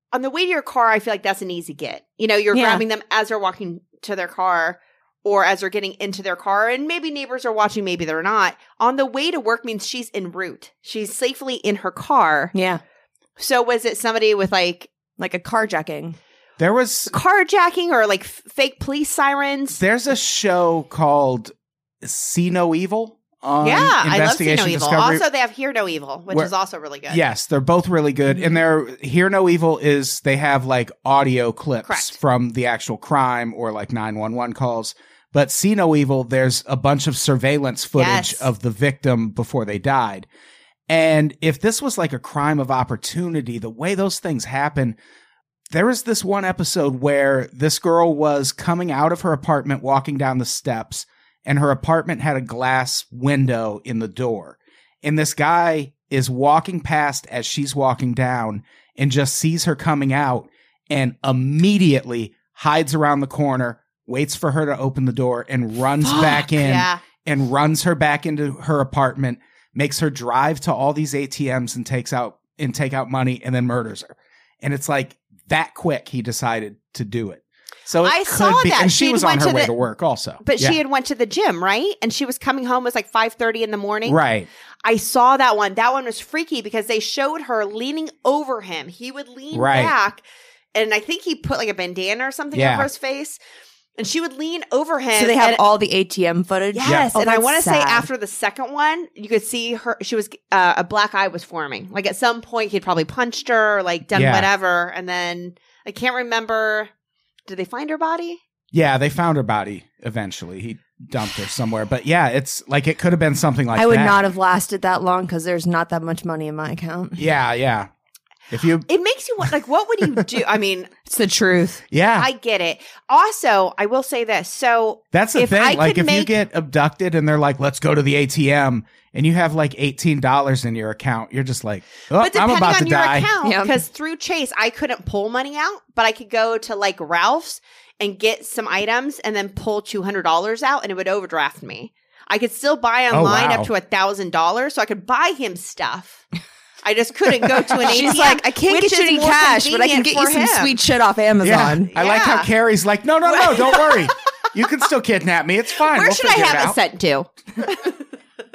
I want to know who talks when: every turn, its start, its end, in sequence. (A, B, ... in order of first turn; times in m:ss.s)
0:00.1-0:12.5 A
0:02.5-0:02.8 B
0:12.5-0:12.8 B
0:13.4-0:14.9 A
0:15.2-0:16.2 B
0:16.6-0:17.1 C
0:17.1-0:19.8 A
0:19.8-0:25.2 C
0:23.6-0:27.2 A
0:27.1-0:40.3 C
0:31.9-0:32.2 A
0:38.0-0:38.5 A
0:40.9-0:45.0 C
0:45.7-1:20.8 C
1:06.0-1:07.0 A
1:18.0-1:19.7 A
1:20.4-1:24.2 A
1:24.0-1:24.5 C
1:24.8-1:30.2 A
1:29.5-1:29.9 C
1:30.7-1:33.4 A
1:32.5-1:32.9 C
1:34.0-1:35.6 A
1:35.2-1:38.1 B
1:36.7-1:46.9 A
1:44.1-1:44.5 C
1:47.5-1:48.4 A
1:48.7-1:54.2 C
1:53.8-1:57.2 B
1:57.2-1:57.9 C
1:58.5-1:58.9 C
1:58.9-2:01.0 A
2:01.1-2:01.8 B
2:01.9-2:02.3 C
2:02.2-2:06.3 A
2:05.1-2:13.3 C
2:12.2-2:26.2 A
2:13.4-2:13.8 B
2:23.1-2:23.7 C
2:26.8-2:30.8 A
2:27.8-2:31.9 B
2:31.4-2:36.8 C
2:32.0-2:32.5 A
2:33.2-2:34.2 A
2:35.9-2:38.0 A